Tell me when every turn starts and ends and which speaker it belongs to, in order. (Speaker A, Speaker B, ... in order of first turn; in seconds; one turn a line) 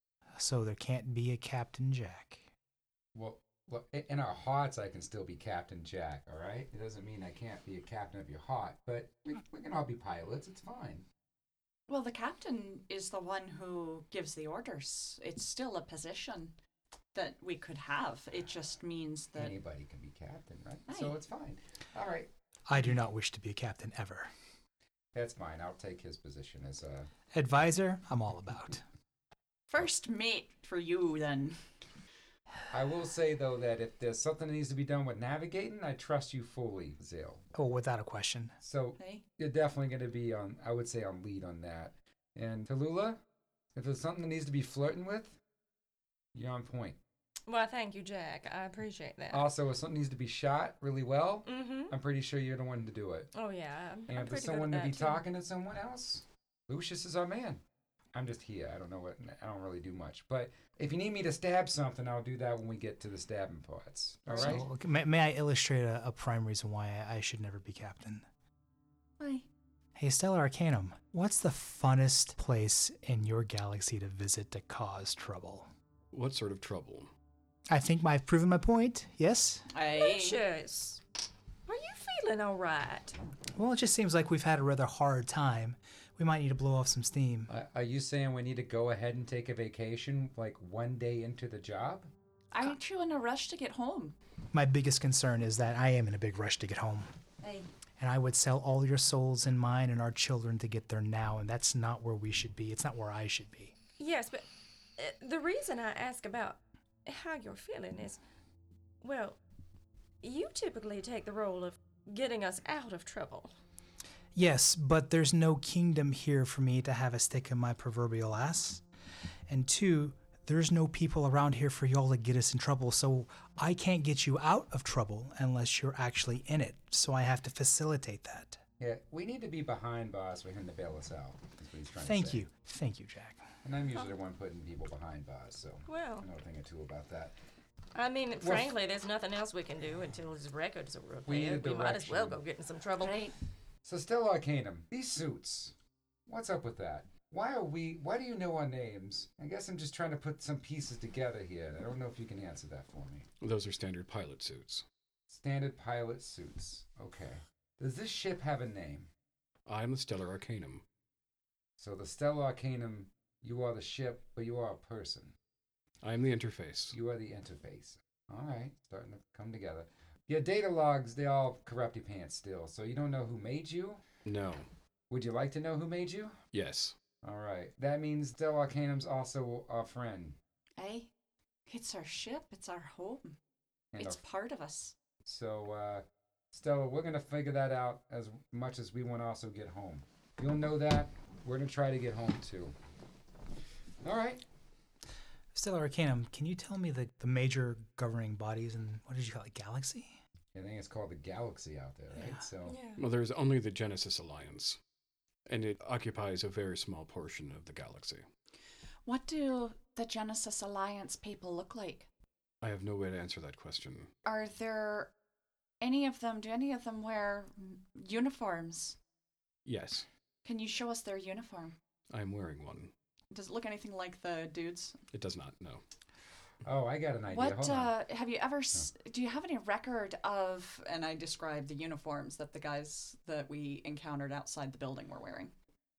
Speaker A: 0.3-2.5
Speaker B: 3.1-11.1
Speaker C: 11.9-16.6
Speaker C: 17.1-19.6
Speaker B: 19.4-22.3
Speaker C: 20.9-21.2
Speaker A: 22.7-24.3
Speaker B: 25.1-27.1
Speaker A: 27.3-28.8
Speaker C: 29.7-31.6
Speaker B: 32.7-37.4
Speaker A: 37.5-38.6
Speaker B: 38.6-43.2
Speaker C: 39.0-39.2
Speaker B: 43.8-45.4
Speaker B: 46.3-47.0
Speaker D: 47.5-49.4
Speaker B: 49.3-53.3
Speaker D: 51.5-51.9
Speaker D: 53.3-55.2
Speaker B: 54.1-57.6
Speaker B: 58.1-64.7
Speaker A: 64.4-68.2
Speaker C: 69.2-69.5
Speaker A: 70.0-75.7
Speaker E: 76.1-77.1
Speaker A: 77.7-79.7
Speaker C: 79.7-80.4
Speaker D: 79.9-81.0
Speaker D: 81.7-83.2
Speaker A: 83.5-87.5
Speaker B: 87.5-92.1
Speaker C: 92.5-94.2
Speaker A: 94.5-97.1
Speaker C: 97.4-97.7
Speaker A: 98.0-103.8
Speaker D: 104.0-104.5
Speaker D: 105.0-108.2
Speaker D: 109.0-109.4
Speaker D: 110.2-113.5
Speaker A: 114.3-118.8
Speaker A: 119.5-128.6
Speaker B: 128.8-132.4
Speaker A: 132.0-133.5
Speaker B: 133.6-137.3
Speaker D: 135.9-136.3
Speaker D: 137.9-143.2
Speaker B: 138.4-138.7
Speaker B: 141.3-142.4
Speaker C: 143.0-143.3
Speaker B: 143.8-145.7
Speaker B: 146.3-153.3
Speaker E: 153.4-154.8
Speaker B: 155.3-159.1
Speaker E: 159.7-160.8
Speaker B: 161.8-165.3
Speaker E: 166.0-167.0
Speaker B: 166.9-174.0
Speaker E: 174.2-174.7
Speaker B: 175.1-176.4
Speaker E: 176.5-176.9
Speaker B: 177.2-180.4
Speaker C: 180.8-181.1
Speaker C: 181.7-183.4
Speaker B: 183.9-184.2
Speaker C: 184.0-184.9
Speaker B: 185.2-192.8
Speaker B: 194.0-194.4
Speaker A: 195.5-200.2
Speaker B: 200.5-202.8
Speaker D: 202.7-203.0
Speaker E: 203.0-204.8
Speaker E: 205.5-208.2
Speaker C: 209.1-212.1
Speaker E: 212.6-214.1
Speaker C: 214.2-215.1
Speaker C: 215.8-219.0
Speaker E: 219.7-220.1
Speaker C: 220.4-221.8
Speaker E: 222.1-222.9
Speaker C: 223.3-225.0
Speaker E: 225.1-225.8
Speaker B: 226.7-227.9
Speaker C: 227.3-235.5